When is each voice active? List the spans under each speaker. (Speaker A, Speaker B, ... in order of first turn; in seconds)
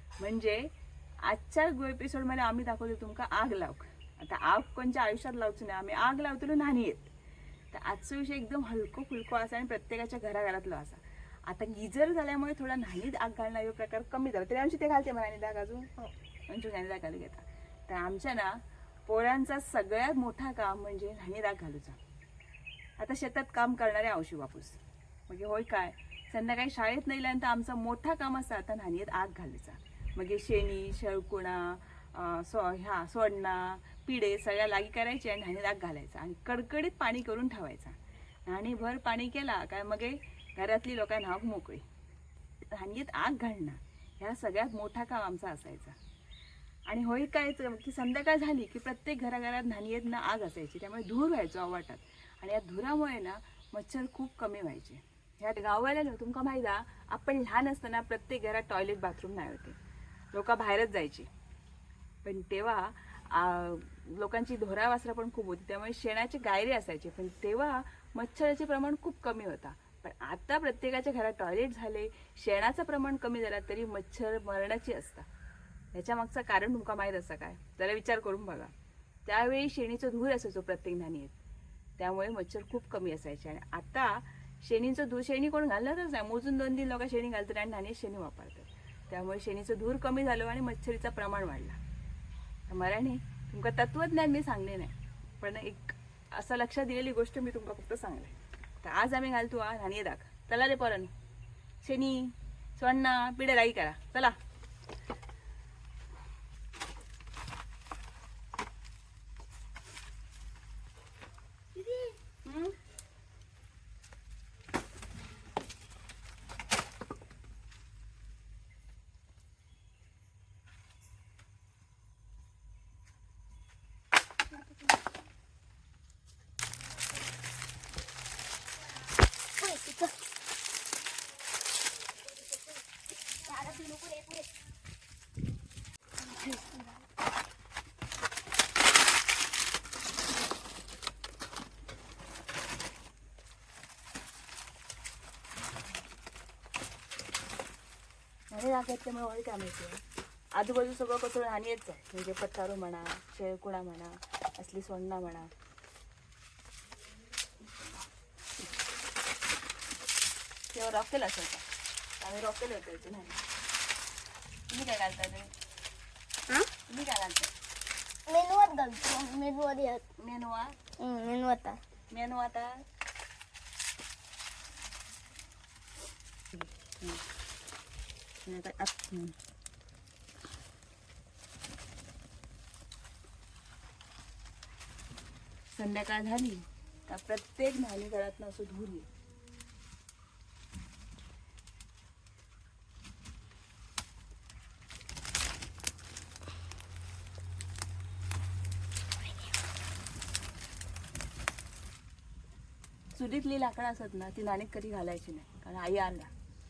Speaker A: 0.2-0.7, 1.2-7.1, 7.7-15.9, 16.5-22.0, 23.0-38.0, 38.5-41.8, 42.7-46.0, 46.9-59.8, 60.3-61.3, 62.2-75.2, 75.9-78.7, 79.2-81.3, 82.0-91.8, 92.7-101.1, 101.8-104.4, 112.4-112.7, 148.5-150.0, 150.6-155.5, 160.7-161.6, 162.2-163.4, 164.7-165.5, 166.9-167.5, 170.2-170.8, 172.1-172.8, 176.5-177.2, 178.4-179.3, 185.7-189.1, 203.1-206.3
Speaker B: 111.8-112.1, 129.6-130.1, 133.5-134.4, 136.2-137.0, 168.3-170.0, 171.0-171.8